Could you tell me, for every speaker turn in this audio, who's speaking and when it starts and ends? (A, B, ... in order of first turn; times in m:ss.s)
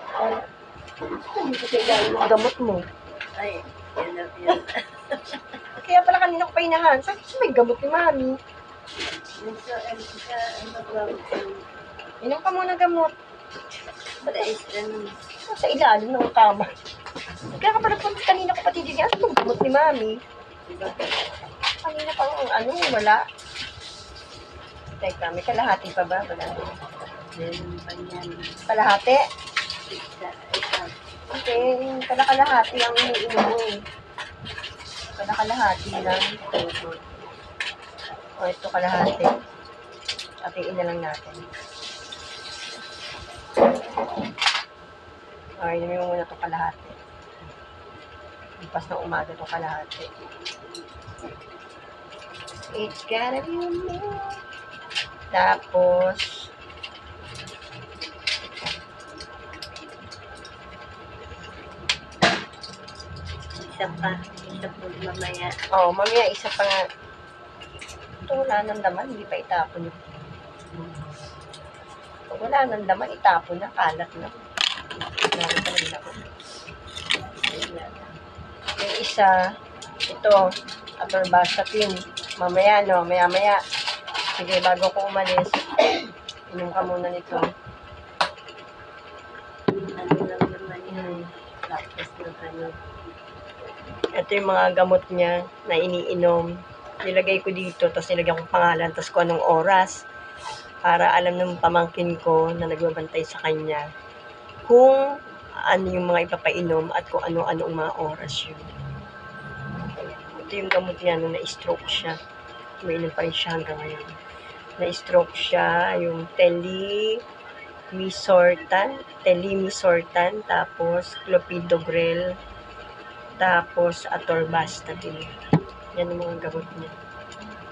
0:01.3-0:02.8 A
0:03.3-0:05.0 B
0:05.7-0:08.4 A
0:09.4-0:11.7 B
0:12.2-0:13.1 A
0:14.2-0:15.2 B
0:15.5-0:16.7 A
0:17.5-0:20.2 A
0:20.6-0:21.2 B
0:21.8-0:23.2 A
0:25.0-0:26.8 A
0:27.3-0:28.6 B
0:28.7-0:29.2 A
0:29.9-0:30.9 B
0:31.3-0:33.7 A
0:35.2-0:36.2 A
0:36.5-0:37.1 B
0:38.4-0:39.3 A
0:40.4-0:41.4 A
0:45.6-0:46.9 A
0:48.6-0:50.1 A
0:52.7-0:54.4 A
0:55.3-0:56.4 A
1:03.6-1:05.5 B
1:05.7-1:06.8 A
1:08.3-1:10.0 A
1:12.3-1:14.4 A
1:15.3-1:16.3 A
1:17.4-1:18.1 A
1:18.8-1:19.3 A
1:20.1-1:20.4 A
1:21.0-1:23.6 A
1:24.4-1:25.7 A
1:26.5-1:27.5 A
1:29.7-1:32.8 B
1:30.9-1:31.2 A
1:34.2-1:36.4 A
1:37.0-1:39.9 A
1:40.8-1:43.8 A
1:44.7-1:45.0 A
1:45.7-1:48.7 A
1:50.3-1:52.2 A
1:52.8-1:54.1 A
1:54.8-1:57.2 A
1:57.9-2:02.2 A
2:03.4-2:05.3 A
2:05.9-2:06.9 A